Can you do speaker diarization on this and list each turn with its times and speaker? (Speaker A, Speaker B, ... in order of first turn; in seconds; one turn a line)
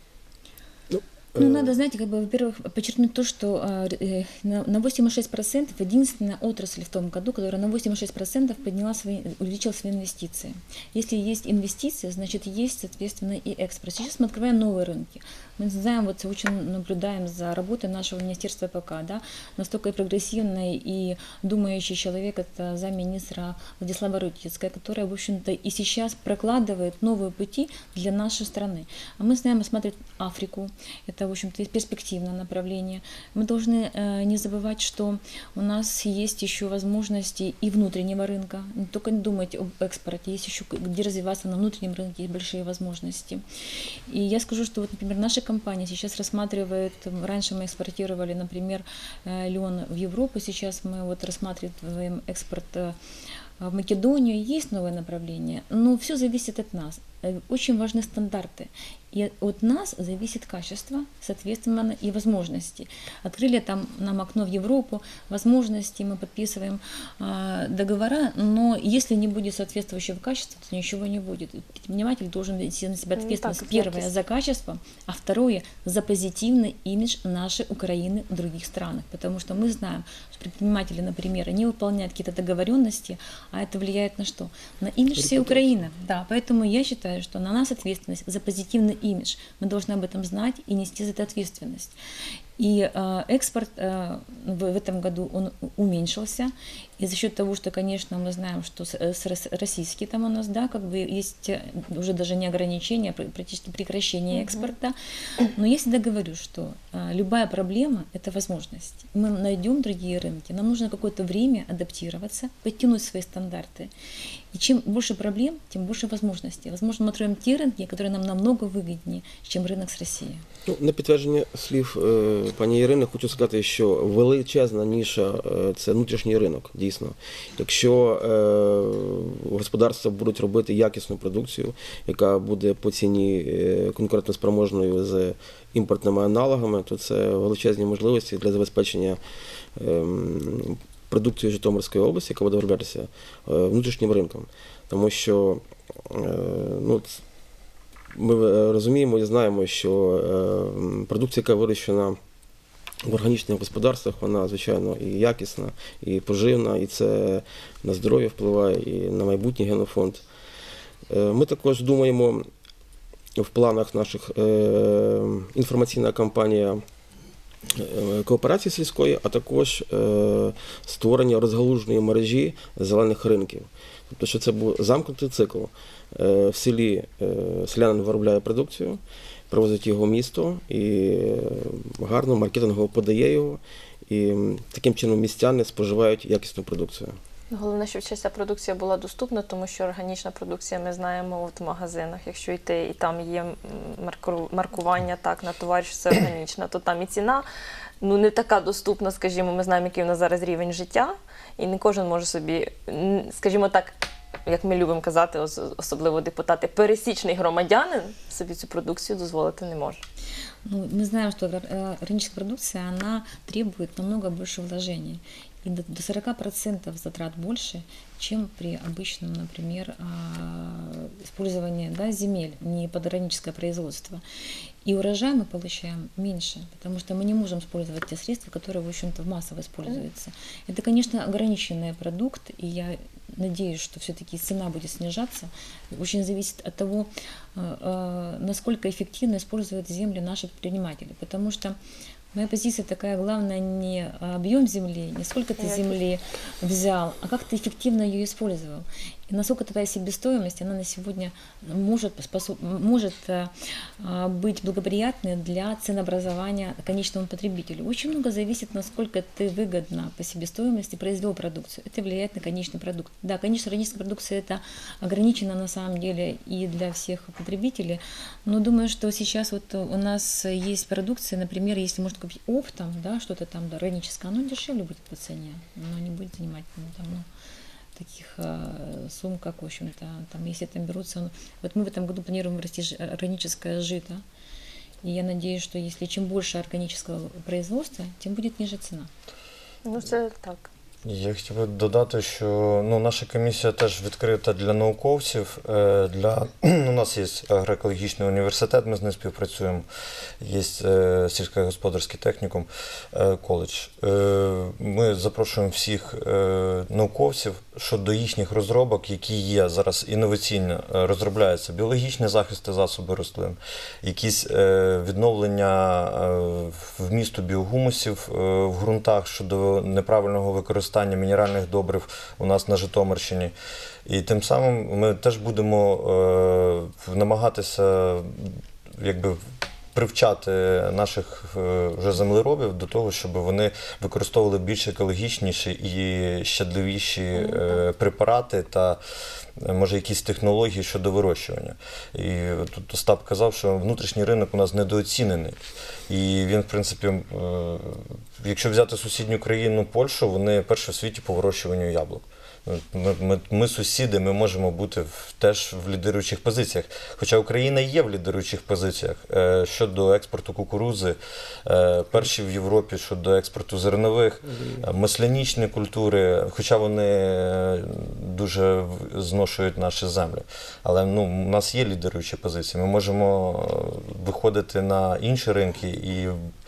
Speaker A: 0.9-1.7
Speaker B: 1.4-43.4
Speaker B: 44.1-53.0
Speaker B: 53.6-92.0
Speaker C: 73.2-74.1
Speaker A: 85.2-85.7
Speaker B: 92.6-113.9
Speaker C: 104.3-104.6
Speaker B: 114.5-120.4
Speaker A: 120.7-139.2
Speaker A: 139.8-147.2
Speaker A: 148.1-152.2
Speaker A: 153.0-160.2
Speaker A: 161.1-162.5
Speaker A: 163.4-166.8
Speaker A: 167.7-187.2
Speaker C: 187.5-197.5
Speaker C: 198.0-210.1
Speaker B: 210.7-224.2
Speaker B: 224.8-241.8
Speaker B: 242.3-277.3
Speaker C: 245.6-246.0
Speaker B: 277.9-284.2
Speaker B: 285.0-289.1
Speaker C: 289.9-290.7
Speaker D: 291.0-299.9
Speaker D: 300.4-323.5
Speaker D: 324.1-329.4
Speaker D: 329.9-339.0
Speaker C: 337.4-337.8
Speaker D: 339.6-376.5